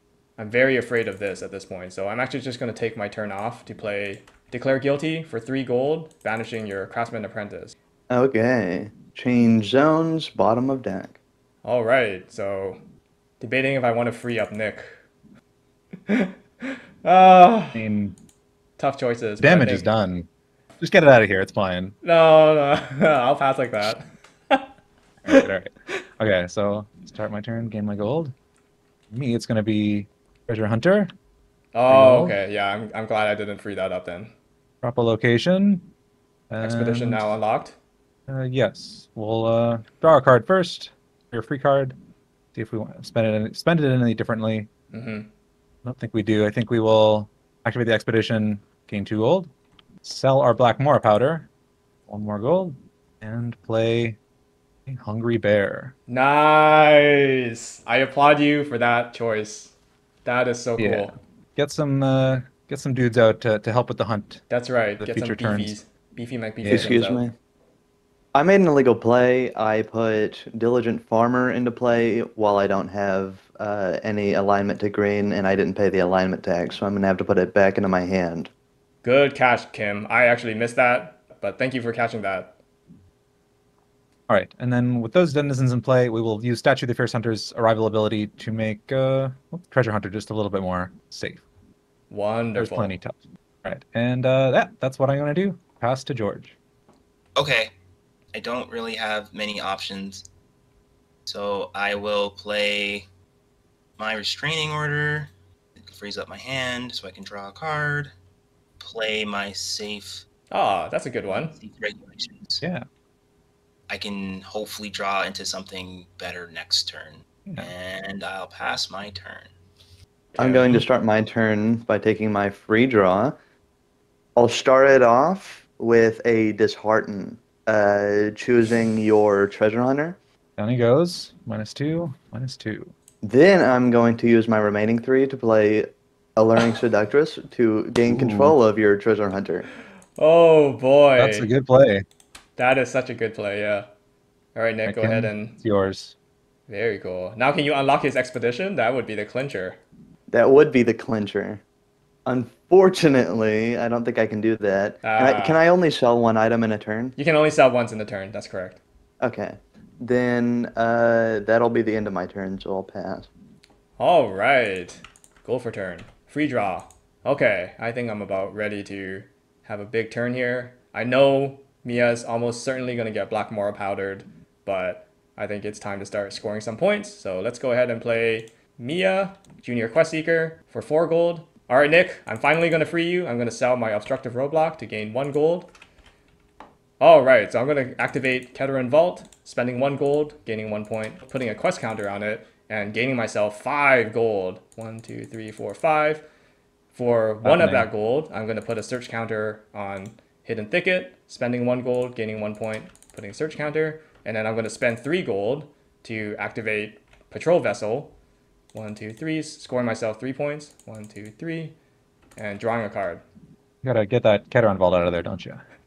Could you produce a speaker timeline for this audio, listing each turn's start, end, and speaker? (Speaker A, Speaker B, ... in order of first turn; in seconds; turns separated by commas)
Speaker A: 0.4-7.7, Speaker B: 8.1-11.2, Speaker A: 11.6-12.8, Speaker A: 13.4-15.0, Speaker A: 16.1-17.8, Speaker C: 17.7-18.2, Speaker A: 18.8-19.9, Speaker C: 19.4-20.3, Speaker C: 20.8-21.9, Speaker A: 22.0-24.7, Speaker C: 25.2-28.3, Speaker C: 29.1-31.1, Speaker A: 31.7-34.3, Speaker C: 31.9-32.4, Speaker C: 34.8-35.9, Speaker C: 36.5-37.3, Speaker A: 36.6-37.8, Speaker C: 38.3-42.0, Speaker C: 42.5-44.7, Speaker A: 44.9-45.3, Speaker C: 45.8-49.5, Speaker C: 50.0-51.5, Speaker C: 52.1-54.2, Speaker C: 54.9-55.9, Speaker A: 56.1-59.7, Speaker A: 60.2-61.1, Speaker C: 60.8-64.4, Speaker A: 64.5-67.2, Speaker C: 65.0-65.8, Speaker C: 66.6-67.0, Speaker B: 66.7-67.3, Speaker B: 68.3-78.5, Speaker A: 79.0-82.6, Speaker C: 84.3-91.4, Speaker A: 92.1-92.9, Speaker C: 92.5-96.5, Speaker D: 97.4-97.7, Speaker D: 98.3-100.2, Speaker D: 101.2-103.1, Speaker D: 104.0-105.3, Speaker D: 105.8-108.1, Speaker D: 108.8-110.2, Speaker A: 110.5-111.6, Speaker D: 111.5-112.6, Speaker D: 113.9-119.5, Speaker B: 120.4-123.3, Speaker C: 120.4-120.8, Speaker B: 124.4-130.2, Speaker C: 130.6-132.9, Speaker B: 133.2-139.7, Speaker C: 138.1-138.6, Speaker A: 140.2-141.5, Speaker C: 141.2-142.1, Speaker A: 142.6-143.9, Speaker A: 144.6-145.6, Speaker C: 144.9-146.1, Speaker A: 146.7-149.8, Speaker B: 150.3-151.6, Speaker B: 152.2-157.2, Speaker A: 155.0-155.6, Speaker A: 157.2-158.8, Speaker B: 159.2-163.3, Speaker A: 164.0-185.7, Speaker A: 187.0-196.2, Speaker A: 196.9-208.1, Speaker C: 197.4-197.9, Speaker A: 208.7-211.7, Speaker A: 212.3-213.2, Speaker C: 213.8-215.6